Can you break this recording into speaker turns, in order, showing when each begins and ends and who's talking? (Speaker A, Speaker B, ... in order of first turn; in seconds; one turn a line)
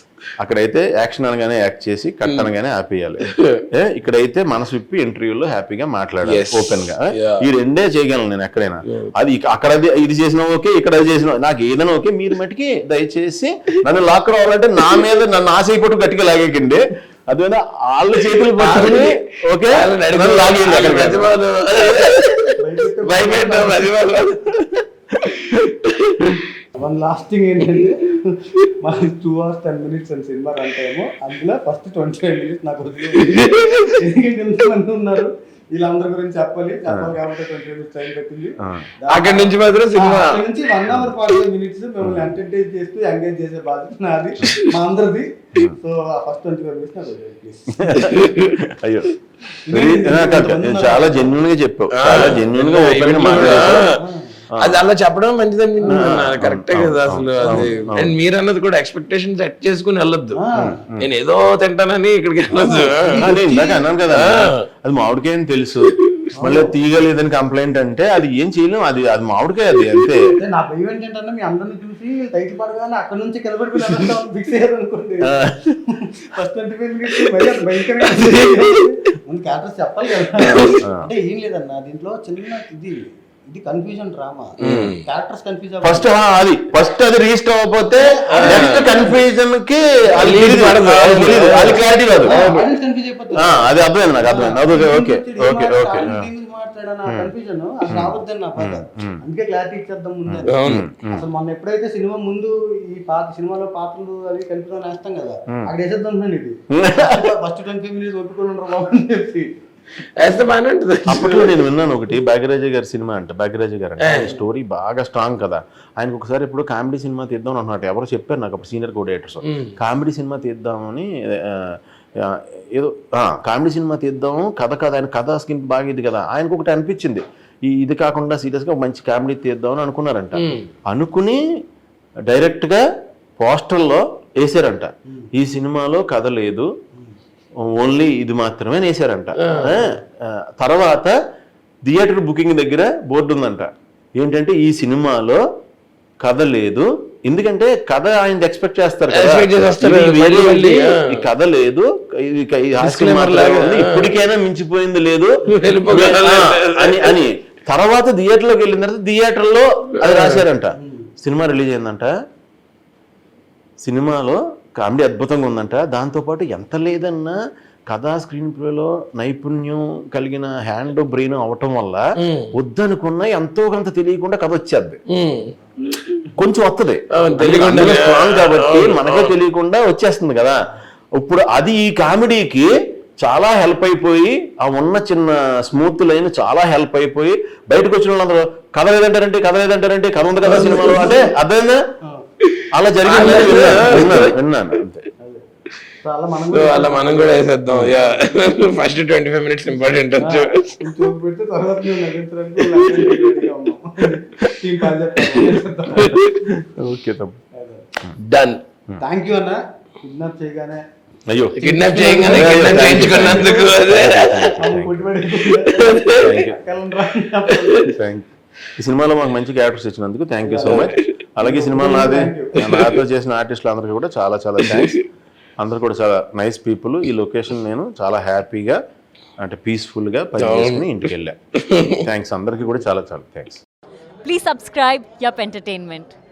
Speaker A: 0.4-21.3
Speaker B: 3.3-3.6
Speaker B: 6.2-7.5
Speaker B: 18.4-26.4
Speaker C: 22.6-24.2
Speaker C: 26.7-48.1
Speaker B: 33.1-34.0
Speaker A: 36.9-37.2
Speaker B: 39.1-40.5
Speaker A: 40.9-41.1
Speaker A: 42.0-42.3
Speaker A: 47.8-49.1
Speaker B: 48.0-48.6
Speaker C: 49.7-51.4
Speaker A: 49.7-53.9
Speaker B: 51.9-53.9
Speaker C: 53.3-54.4
Speaker A: 54.5-54.8
Speaker B: 54.6-60.4
Speaker C: 55.8-56.3
Speaker A: 55.9-58.1
Speaker C: 57.4-57.9
Speaker C: 60.3-60.8
Speaker A: 60.6-61.1
Speaker B: 61.0-64.6
Speaker C: 62.5-63.4
Speaker A: 63.2-70.2
Speaker C: 66.3-66.8
Speaker C: 70.3-86.1
Speaker A: 75.3-75.6
Speaker B: 78.1-78.6
Speaker B: 80.4-80.8
Speaker A: 80.4-81.1
Speaker B: 84.6-85.0
Speaker A: 84.6-85.0
Speaker A: 85.8-92.5
Speaker C: 88.0-89.2
Speaker B: 88.3-89.1
Speaker B: 90.2-92.7
Speaker C: 92.2-109.5
Speaker A: 93.3-96.3
Speaker A: 97.9-99.2
Speaker A: 100.3-101.2
Speaker B: 100.5-100.8
Speaker A: 106.7-107.2
Speaker B: 110.2-111.6
Speaker A: 111.1-131.4
Speaker B: 114.0-114.3
Speaker C: 114.1-114.4
Speaker B: 119.4-119.8
Speaker B: 130.3-130.7
Speaker A: 132.3-132.8
Speaker A: 133.4-136.7
Speaker A: 137.6-141.1
Speaker B: 139.4-139.8
Speaker A: 141.8-145.4
Speaker A: 146.2-155.3
Speaker B: 149.1-151.2
Speaker B: 152.8-154.2
Speaker B: 155.5-157.2
Speaker A: 155.9-162.1
Speaker B: 160.0-160.4
Speaker C: 160.8-161.1
Speaker A: 163.8-167.4
Speaker A: 167.9-172.0
Speaker B: 172.2-172.5
Speaker A: 172.5-175.0
Speaker B: 175.1-176.3
Speaker A: 176.4-180.6
Speaker B: 177.1-179.3
Speaker A: 181.2-191.8
Speaker B: 190.4-191.1
Speaker C: 190.6-191.2
Speaker B: 192.5-194.3
Speaker A: 192.7-195.0
Speaker C: 196.0-198.3
Speaker B: 196.5-201.0
Speaker C: 200.2-206.2
Speaker B: 202.6-203.2
Speaker B: 205.2-206.4
Speaker A: 206.5-207.4
Speaker C: 207.5-207.8
Speaker B: 208.2-208.6
Speaker C: 209.0-210.8
Speaker A: 211.3-215.1
Speaker C: 211.6-217.9
Speaker B: 211.6-214.6
Speaker B: 215.4-216.3
Speaker A: 216.1-216.6
Speaker A: 217.8-218.2
Speaker A: 218.8-225.0
Speaker C: 220.4-220.9
Speaker B: 220.7-221.0
Speaker C: 221.4-222.6
Speaker B: 222.6-223.0
Speaker B: 224.6-225.0
Speaker A: 225.6-228.8
Speaker A: 229.4-231.3
Speaker B: 230.4-231.1
Speaker B: 231.6-232.0
Speaker A: 232.0-233.6
Speaker D: 234.2-236.2